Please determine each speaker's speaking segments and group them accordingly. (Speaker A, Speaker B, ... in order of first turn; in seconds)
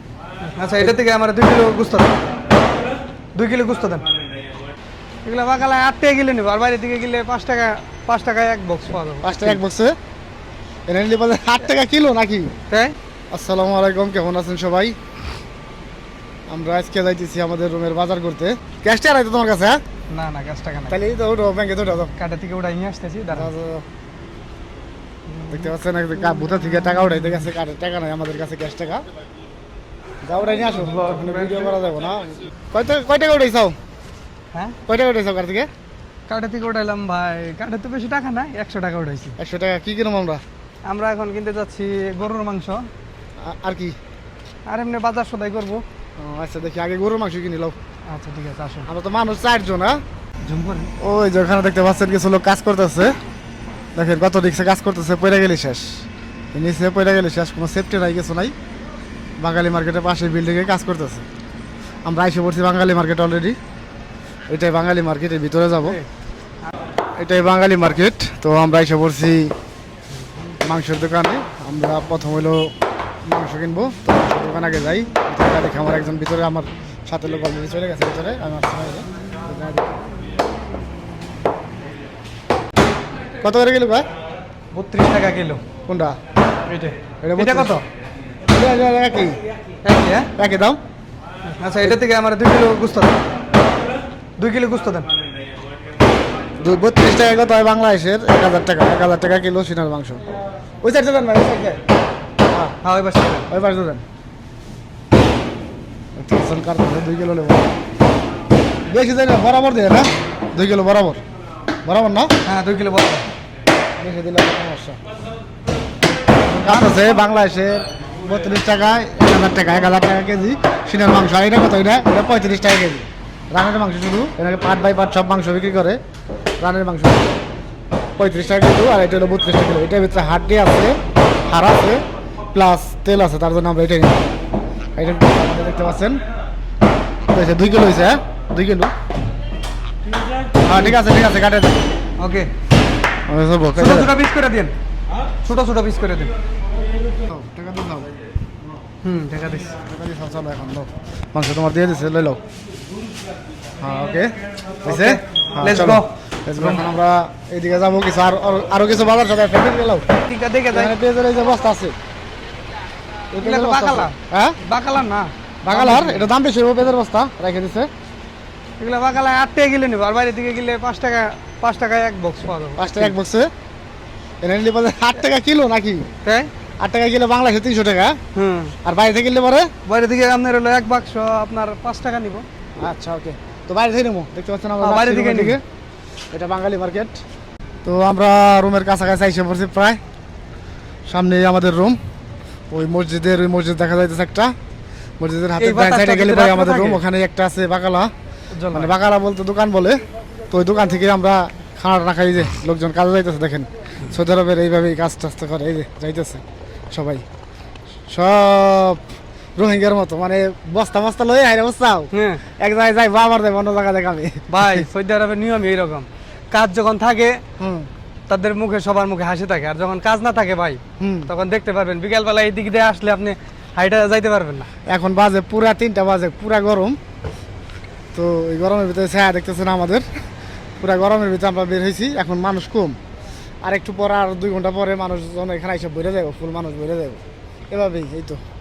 Speaker A: 0.6-2.2, 3.4-4.0, 5.2-9.6, 12.7-13.0, 20.1-21.0, 22.2-23.5, 25.4-25.7, 31.1-31.7, 34.5-34.8, 36.3-39.4, 40.9-42.9, 44.7-45.8, 48.1-48.9, 50.5-50.9, 84.7-85.6, 86.7-87.8, 89.8-90.3, 91.6-93.2, 94.4-95.1, 102.8-103.5, 112.5-113.3, 116.5-117.0, 142.2-142.5, 143.8-144.7, 145.4-146.3, 149.0-149.7, 154.8-156.8, 160.2-160.9, 163.4-166.3, 168.8-173.2, 176.2-176.5, 178.3-178.8, 179.9-182.5, 184.8-185.6, 195.6-197.0, 198.6-198.9, 212.1-212.4, 214.5-217.4, 218.3-224.7
Speaker B: 9.2-10.0, 10.9-12.5, 13.3-15.0, 16.5-19.8, 20.9-22.1, 23.3-23.9, 25.5-29.0, 30.2-33.8, 34.9-35.7, 39.4-40.4, 43.4-44.0, 46.2-47.8, 48.9-50.0, 51.0-53.1, 54.0-58.5, 59.4-61.3, 62.1-63.6, 64.5-66.0, 67.2-69.5, 70.6-72.7, 73.3-80.0, 83.4-84.0, 85.9-86.2, 87.2-87.8, 88.5-89.4, 90.4-90.8, 96.6-100.2, 100.8-101.8, 103.5-104.0, 106.2-107.7, 108.9-111.2, 111.8-112.3, 114.0-115.0, 116.6-126.0, 126.6-127.3, 128.2-134.3, 135.0-136.2, 137.3-138.9, 140.6-141.9, 143.3-144.1, 147.3-148.1, 149.8-152.4, 153.8-160.1, 160.7-161.9, 163.3-164.6, 165.6-167.9, 172.8-173.5, 174.4-176.1, 176.8-178.2, 178.8-179.7, 182.8-185.6, 186.3-187.2, 187.8-190.0, 191.1-192.0, 192.7-194.5, 195.2-198.1, 198.7-207.2, 208.1-209.0, 209.6-214.9, 217.6-217.9, 221.0-221.3, 224.9-227.0, 228.1-230.1, 230.8-233.0, 233.6-238.4